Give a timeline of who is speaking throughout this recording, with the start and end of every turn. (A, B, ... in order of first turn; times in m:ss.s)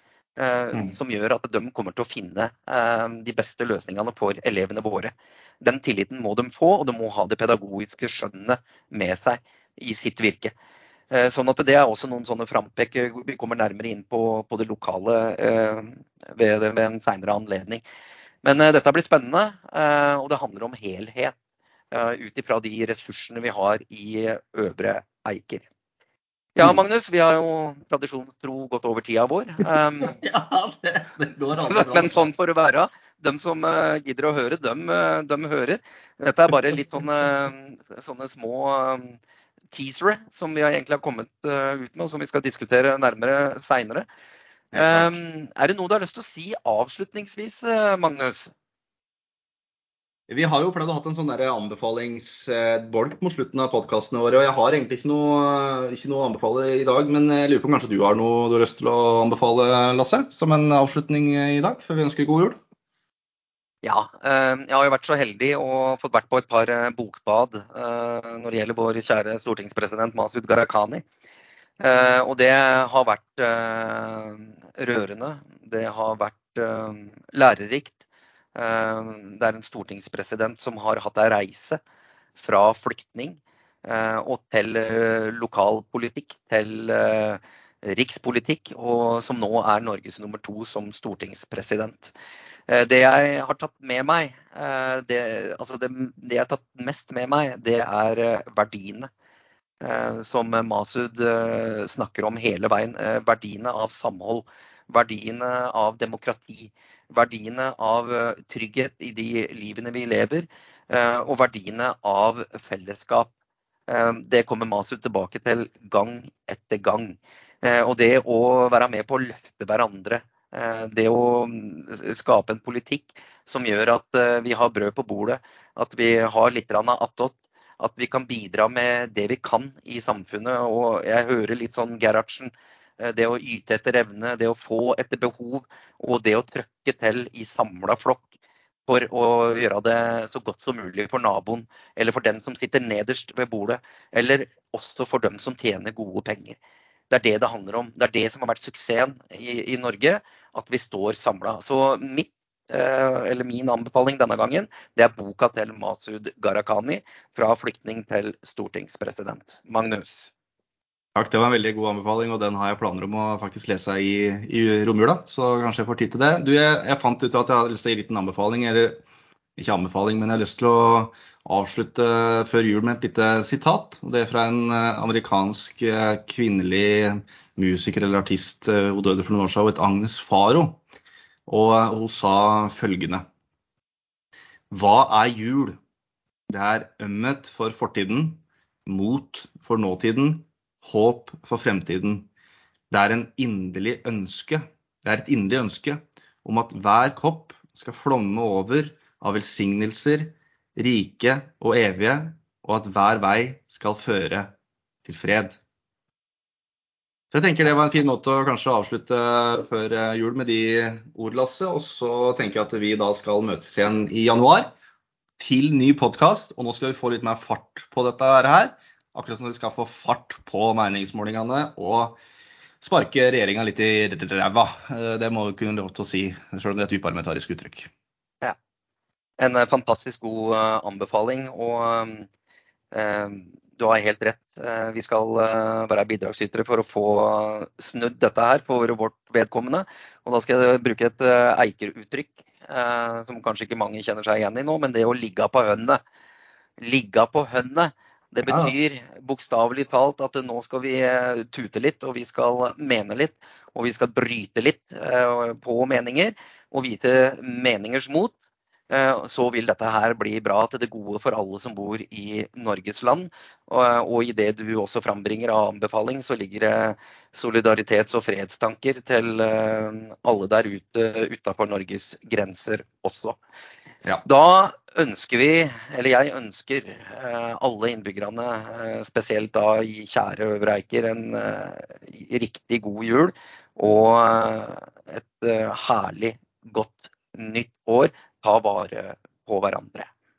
0:00.4-0:10.5 A
0:11.1-0:17.8 A
0:18.4-0:21.3 A
0:21.9-0:25.6 A
0:26.6-0:30.2 A
0:30.0-0:32.3 B
0:31.7-0:39.2 A
0:39.7-0:44.1 A
0:44.7-0:45.1 B
0:44.7-0:48.5 A
0:50.3-1:02.6 B
1:03.8-1:11.0 A
1:11.8-1:18.0 A
1:18.5-1:21.8 A
1:22.4-1:32.1 A
1:32.7-1:39.1 A
1:39.8-1:53.3 A
1:53.9-2:18.2 A
2:18.9-2:26.6 A
2:27.1-2:40.3 A
2:41.1-2:49.0 B
2:49.6-3:00.8 B
3:01.5-3:03.2 B
3:04.7-3:05.8 B
3:06.5-3:12.3 B
3:12.9-3:24.5 B
3:25.0-3:25.6 B
3:27.3-3:34.7 B
3:35.4-3:42.2 B
3:42.8-3:47.9 B
3:49.4-3:52.3 A
3:52.9-4:06.0 A
4:06.8-4:18.3 A
4:08.4-4:08.7 B
4:18.9-4:33.4 A
4:34.2-4:50.1 A